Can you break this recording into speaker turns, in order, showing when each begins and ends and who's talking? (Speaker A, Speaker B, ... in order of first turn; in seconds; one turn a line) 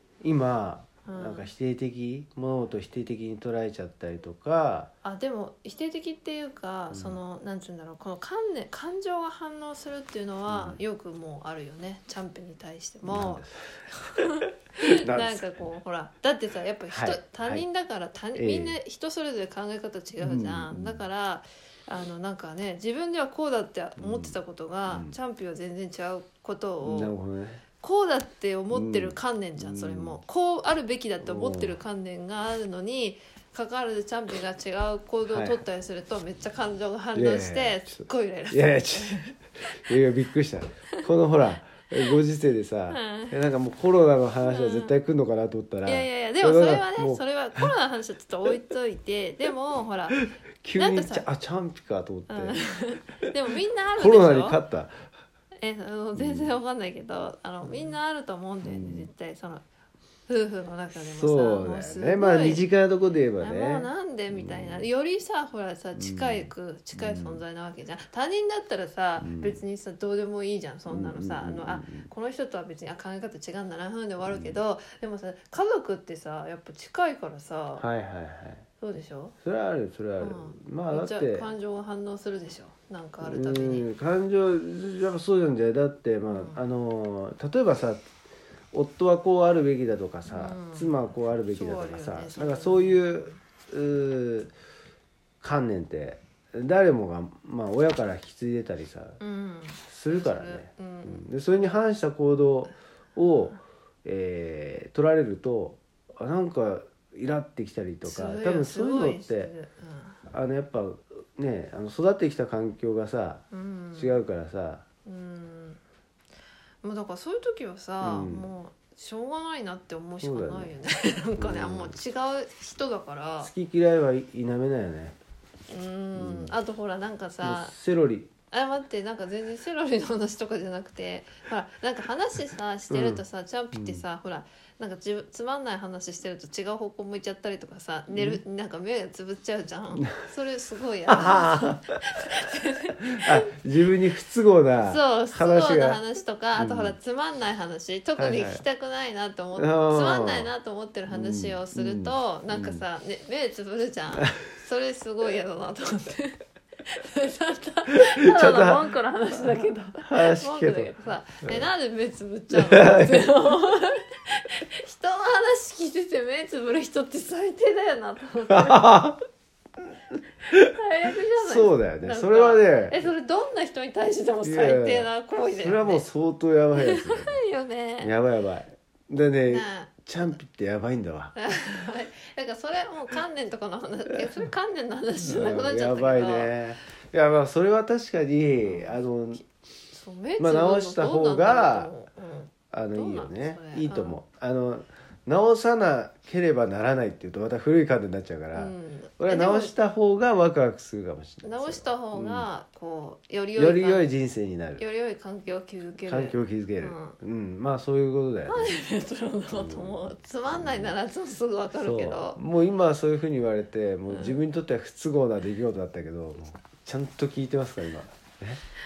Speaker A: 0.2-4.9
Speaker B: 1.1-1.5
Speaker B: 5.0-27.1
Speaker A: 6.9-7.2
Speaker A: 10.5-10.8
Speaker A: 13.1-13.5
Speaker A: 14.8-15.5
Speaker A: 16.9-17.6
Speaker A: 18.4-18.8
Speaker A: 20.2-21.0
Speaker A: 24.0-25.2
Speaker A: 26.8-27.6
Speaker B: 27.8-39.8
Speaker A: 28.7-30.2
Speaker A: 31.2-31.8
Speaker A: 35.3-35.6
Speaker A: 37.1-47.7
Speaker B: 42.9-43.4
Speaker B: 44.4-44.9
Speaker B: 45.8-50.2
Speaker A: 50.1-53.3
Speaker B: 50.8-51.3
Speaker B: 52.3-54.6
Speaker A: 54.0-55.0
Speaker B: 55.6-59.6
Speaker A: 56.2-56.5
Speaker A: 58.6-59.1
Speaker B: 60.3-62.7
Speaker A: 61.1-64.8
Speaker B: 63.4-77.9
Speaker A: 65.9-67.4
Speaker A: 69.2-69.6
Speaker A: 70.9-72.1
Speaker A: 74.2-74.6
Speaker A: 77.8-78.7
Speaker B: 78.8-79.3
Speaker A: 79.4-81.5
Speaker B: 80.2-83.9
Speaker A: 83.2-88.1
Speaker B: 86.3-86.6
Speaker A: 88.7-94.5
Speaker B: 90.3-93.4
Speaker A: 95.4-99.2
Speaker B: 99.2-101.2
Speaker A: 99.9-109.5
Speaker B: 108.0-110.2
Speaker A: 110.3-114.8
Speaker B: 113.5-114.2
Speaker B: 115.0-115.8
Speaker B: 116.8-123.5
Speaker A: 118.0-118.5
Speaker A: 120.2-120.7
Speaker A: 121.4-122.0
Speaker A: 123.4-125.2
Speaker B: 125.7-127.7
Speaker A: 126.2-126.6
Speaker A: 127.4-128.3
Speaker B: 128.5-143.5
Speaker A: 132.9-133.2
Speaker A: 133.7-134.0
Speaker A: 138.1-138.4
Speaker A: 141.1-142.0
Speaker A: 143.0-146.0
Speaker B: 144.8-168.9
Speaker A: 146.6-146.9
Speaker A: 148.2-148.7
Speaker A: 149.6-150.5
Speaker A: 151.1-152.8
Speaker A: 158.0-161.7
Speaker A: 162.5-163.3
Speaker A: 168.5-169.2
Speaker B: 170.5-176.1
Speaker A: 170.5-170.8
Speaker A: 171.4-173.1
Speaker A: 174.4-177.4
Speaker B: 176.8-178.1
Speaker A: 178.0-181.3
Speaker B: 179.5-179.9
Speaker B: 181.3-186.6
Speaker A: 185.2-189.4
Speaker B: 188.6-189.0
Speaker B: 189.9-194.2
Speaker A: 190.4-191.9
Speaker A: 192.7-202.5
Speaker B: 198.5-199.8
Speaker B: 201.4-204.1
Speaker A: 203.6-204.8
Speaker B: 204.8-207.2
Speaker A: 206.1-208.7
Speaker B: 208.5-212.4
Speaker A: 209.5-210.9
Speaker A: 211.8-218.6
Speaker B: 214.1-214.4